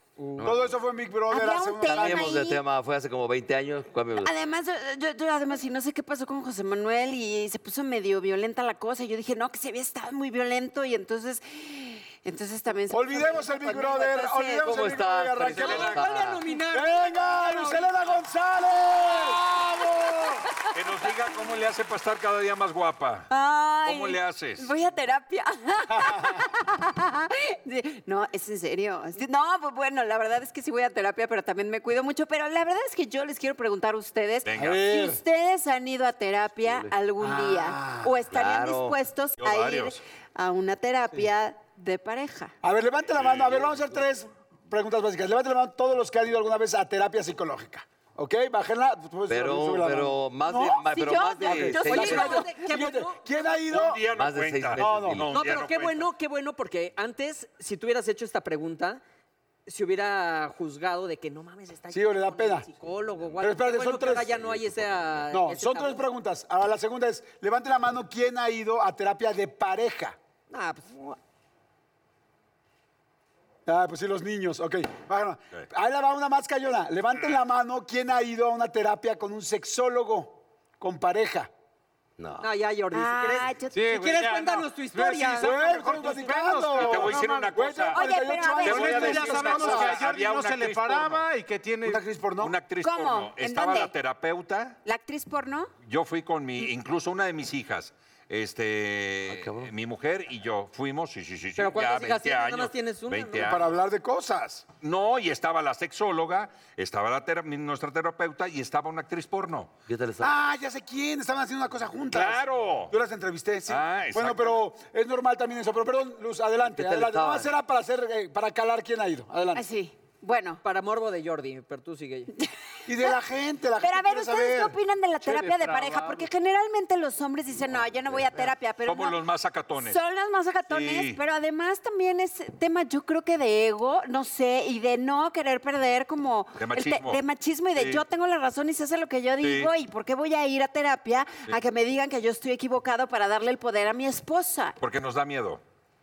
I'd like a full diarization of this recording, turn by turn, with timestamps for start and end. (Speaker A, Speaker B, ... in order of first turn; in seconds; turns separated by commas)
Speaker A: 0.3-0.7, Speaker B: 0.4-2.3, Speaker C: 1.3-2.6, Speaker A: 1.8-4.3, Speaker C: 4.2-14.7, Speaker B: 12.9-15.9, Speaker A: 14.6-16.4, Speaker D: 15.4-16.1, Speaker E: 15.5-18.2, Speaker B: 16.7-19.4, Speaker D: 20.7-23.3, Speaker C: 23.3-42.5, Speaker D: 23.8-24.7, Speaker B: 25.9-26.3, Speaker D: 34.4-34.8, Speaker B: 34.6-35.2, Speaker A: 36.6-36.9, Speaker F: 37.5-37.9, Speaker A: 38.3-39.0, Speaker D: 39.4-40.0, Speaker B: 42.6-50.8, Speaker D: 43.1-43.5, Speaker A: 49.3-52.4, Speaker C: 50.7-52.4, Speaker B: 51.4-54.0, Speaker E: 51.9-53.2, Speaker D: 53.7-56.1, Speaker A: 54.1-55.3, Speaker B: 54.8-55.2, Speaker E: 55.3-59.0, Speaker E: 59.7-66.0, Speaker B: 61.9-62.7, Speaker B: 63.4-64.3, Speaker A: 64.3-65.3, Speaker B: 65.3-70.2, Speaker E: 70.5-71.2, Speaker B: 73.7-81.5, Speaker A: 82.2-82.5, Speaker E: 82.4-85.5, Speaker C: 82.9-83.8, Speaker F: 83.7-87.5, Speaker B: 85.4-90.0, Speaker D: 86.7-88.0, Speaker C: 87.9-89.3, Speaker D: 88.6-91.2, Speaker F: 88.6-92.0, Speaker B: 91.8-92.6, Speaker D: 92.4-94.8, Speaker C: 92.8-93.9, Speaker C: 94.8-95.7, Speaker D: 95.8-103.8, Speaker A: 99.3-99.7, Speaker E: 101.6-103.5, Speaker B: 103.4-104.7, Speaker D: 104.8-109.7, Speaker A: 109.9-110.3, Speaker B: 110.2-119.6, Speaker D: 112.1-112.9, Speaker D: 113.7-114.6, Speaker A: 116.6-117.5, Speaker C: 119.5-120.6, Speaker E: 120.6-122.3, Speaker C: 122.4-123.2, Speaker B: 122.8-124.8, Speaker C: 123.8-129.2, Speaker F: 125.2-126.3, Speaker D: 128.8-130.0, Speaker C: 129.8-144.8, Speaker D: 130.7-131.2, Speaker D: 136.6-137.2, Speaker D: 137.8-138.0, Speaker D: 139.4-139.7, Speaker D: 144.8-145.6